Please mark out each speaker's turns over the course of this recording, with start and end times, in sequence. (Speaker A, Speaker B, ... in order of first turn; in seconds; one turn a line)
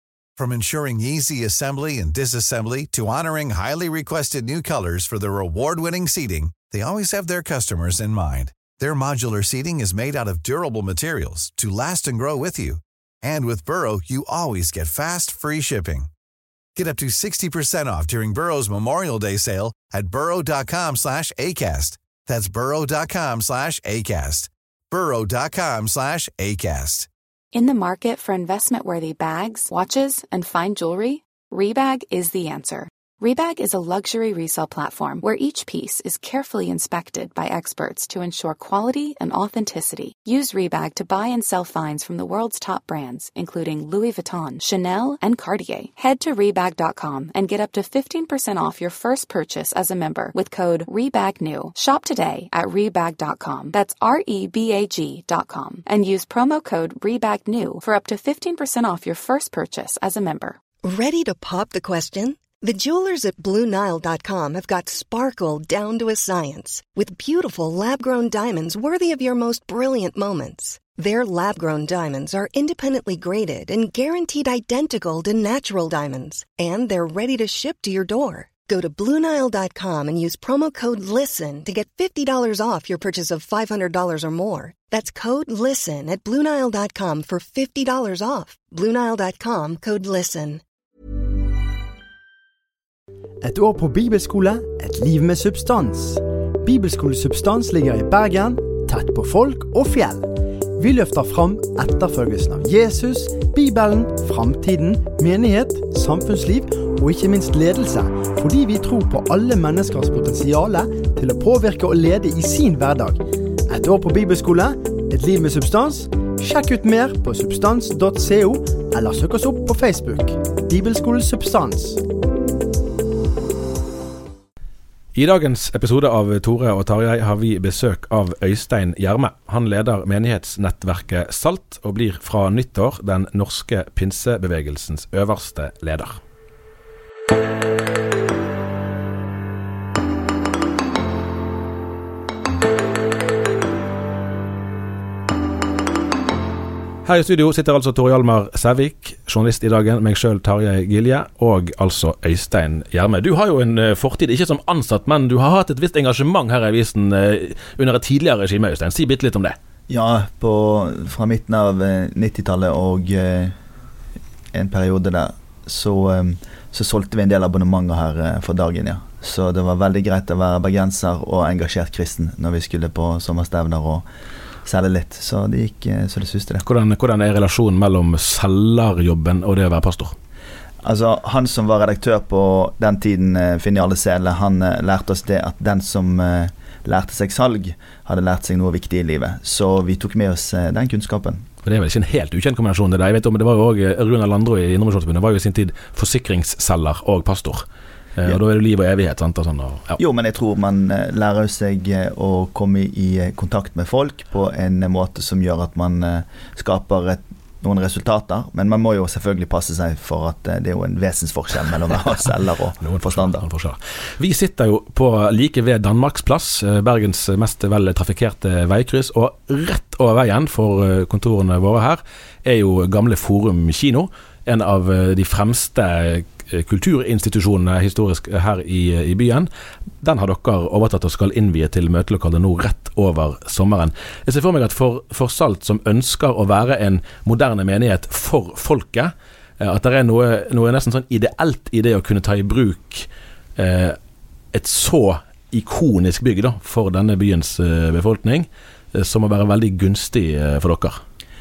Speaker A: 0.4-16.1
Speaker A: 16.8-27.1
Speaker B: 27.5-60.6
Speaker C: 60.8-90.6
Speaker D: 93.4-122.0
Speaker E: 125.2-136.2
Speaker E: 147.1-159.6
Speaker F: 159.9-163.6
Speaker F: 164.5-174.1
Speaker F: 174.7-176.6
Speaker E: 176.6-180.2
Speaker F: 180.8-191.4
Speaker E: 191.6-197.7
Speaker E: 198.2-200.0
Speaker F: 200.0-213.5
Speaker E: 212.8-229.5
Speaker E: 230.0-244.0
Speaker E: 244.5-251.0